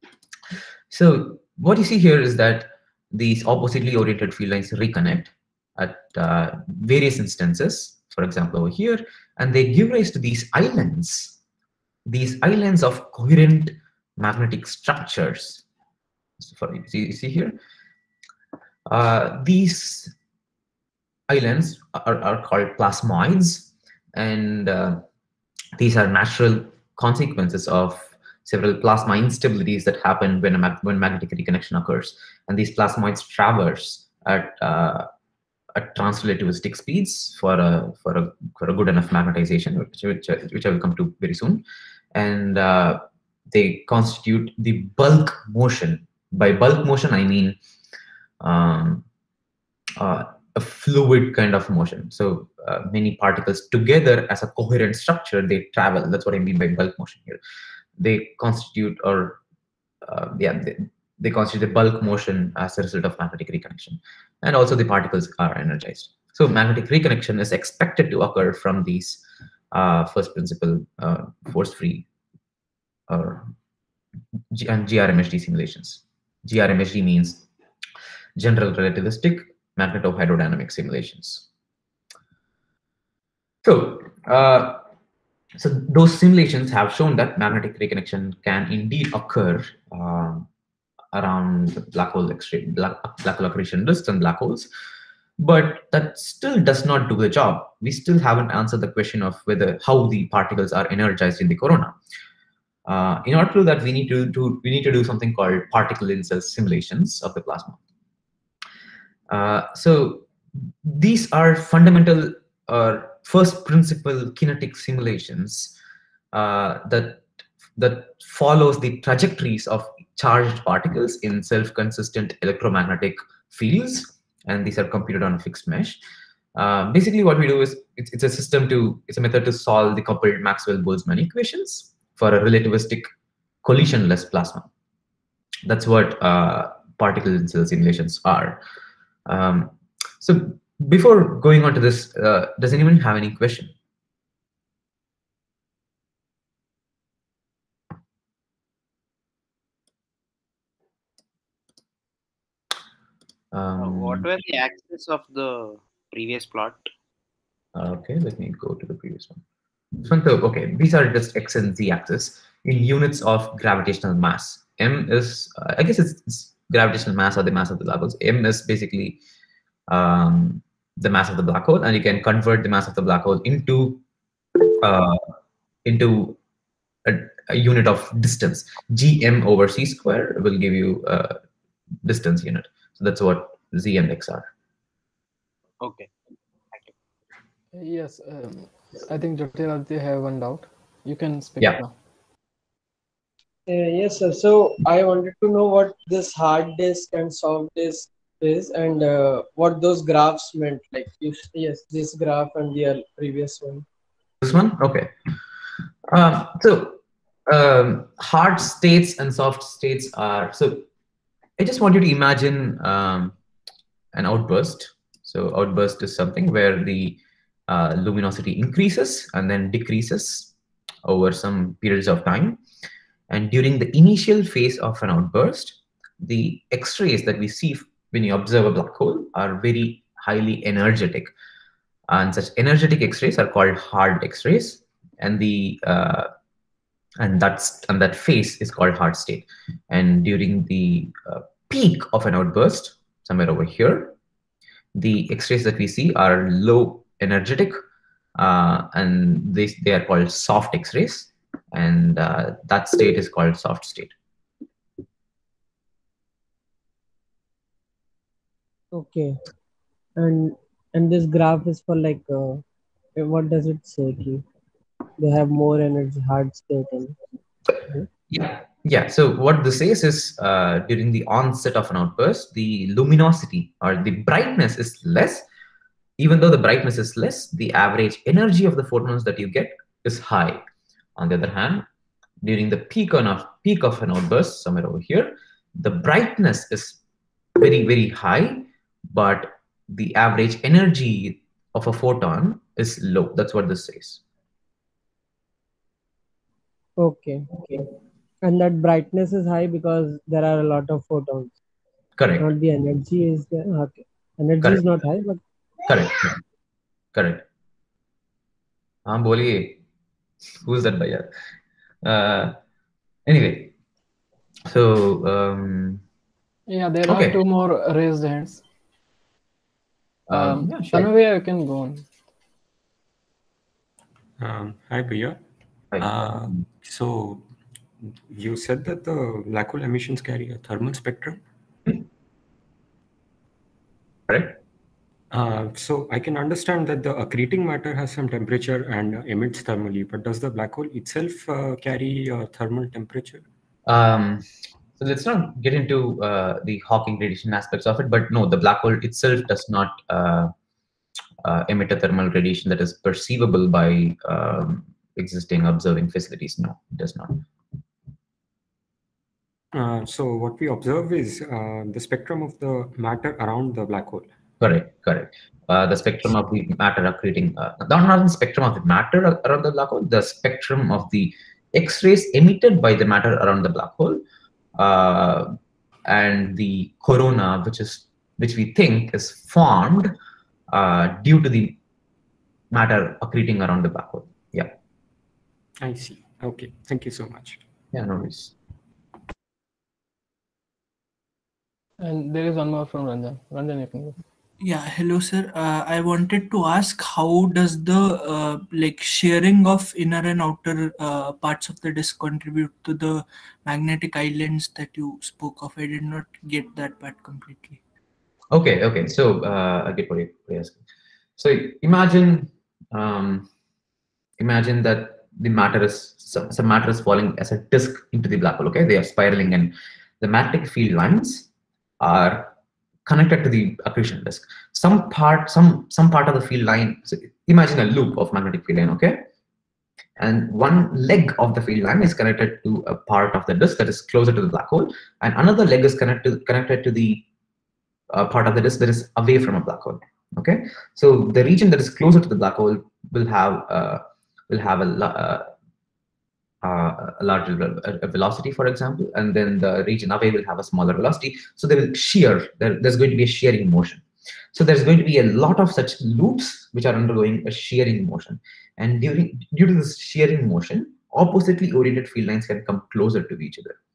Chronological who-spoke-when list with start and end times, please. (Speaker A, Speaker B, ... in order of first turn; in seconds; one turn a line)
Speaker A: 0.9-11.4
Speaker A: 12.1-15.6
Speaker A: 16.4-17.6
Speaker A: 18.9-20.1
Speaker A: 21.3-25.0
Speaker A: 25.8-35.1
Speaker A: 35.8-41.6
Speaker A: 42.1-47.6
Speaker A: 48.4-49.0
Speaker A: 50.0-57.4
Speaker A: 58.0-59.4
Speaker A: 60.0-72.0
Speaker A: 73.1-73.5
Speaker A: 74.5-77.5
Speaker A: 78.4-81.5
Speaker A: 83.6-84.9
Speaker A: 85.5-90.5
Speaker A: 91.1-94.7
Speaker A: 95.4-102.0
Speaker A: 102.9-107.8
Speaker A: 109.3-115.8
Speaker A: 116.3-126.0
Speaker A: 126.5-133.1
Speaker A: 133.6-134.7
Speaker A: 135.7-138.6
Speaker A: 139.2-143.7
Speaker A: 153.5-154.3
Speaker B: 153.8-156.8
Speaker A: 157.7-159.4
Speaker A: 160.0-169.2
Speaker A: 169.9-174.0
Speaker A: 174.8-175.2
Speaker A: 175.8-176.4
Speaker A: 177.0-181.4
Speaker A: 182.0-184.5
Speaker B: 185.8-186.1
Speaker C: 187.7-191.9
Speaker D: 193.7-203.8
Speaker A: 204.4-205.1
Speaker A: 206.1-210.9
Speaker A: 211.6-213.3
Speaker A: 214.1-220.5
Speaker A: 221.0-222.6
Speaker A: 223.3-231.3
Speaker A: 232.1-236.3
Speaker A: 237.2-244.1
Speaker A: 244.9-247.8
Speaker A: 248.4-254.1
Speaker D: 258.9-259.4
Speaker D: 260.2-262.6
Speaker D: 263.2-264.4
Speaker D: 265.2-267.2
Speaker D: 267.8-268.1
Speaker A: 268.3-275.4
Speaker A: 276.2-280.6
Speaker A: 281.1-281.9
Speaker A: 282.4-287.0
Speaker A: 287.6-294.2
Speaker D: 297.0-297.9
Speaker D: 298.4-301.5
Speaker A: 302.2-302.4
Speaker D: 302.4-305.4
Speaker A: 305.9-306.4
Speaker A: 307.1-307.4
Speaker A: 309.1-309.8
Speaker A: 310.6-311.3
Speaker A: 312.0-312.6
Speaker A: 313.2-313.7
Speaker A: 314.6-316.0
Speaker C: 316.7-318.6
Speaker A: 317.1-317.4
Speaker A: 320.3-321.1
Speaker C: 320.3-322.1
Speaker E: 324.4-325.4
Speaker E: 326.0-327.4
Speaker E: 328.0-331.4
Speaker A: 334.3-334.6
Speaker E: 335.3-343.4
Speaker A: 343.9-344.5
Speaker A: 345.0-350.5
Speaker A: 351.4-357.4
Speaker E: 359.7-364.3
Speaker A: 364.6-374.2
Speaker A: 374.8-375.6
Speaker A: 376.1-380.1
Speaker A: 380.7-381.8
Speaker A: 382.7-384.7
Speaker E: 385.8-387.6
Speaker A: 387.9-388.5
Speaker C: 392.0-394.2
Speaker F: 394.6-407.8
Speaker A: 408.5-410.8
Speaker A: 411.4-413.5
Speaker A: 414.4-421.5
Speaker A: 422.0-422.5
Speaker A: 423.1-429.2
Speaker A: 430.2-437.2
Speaker A: 438.1-445.5
Speaker A: 446.6-463.8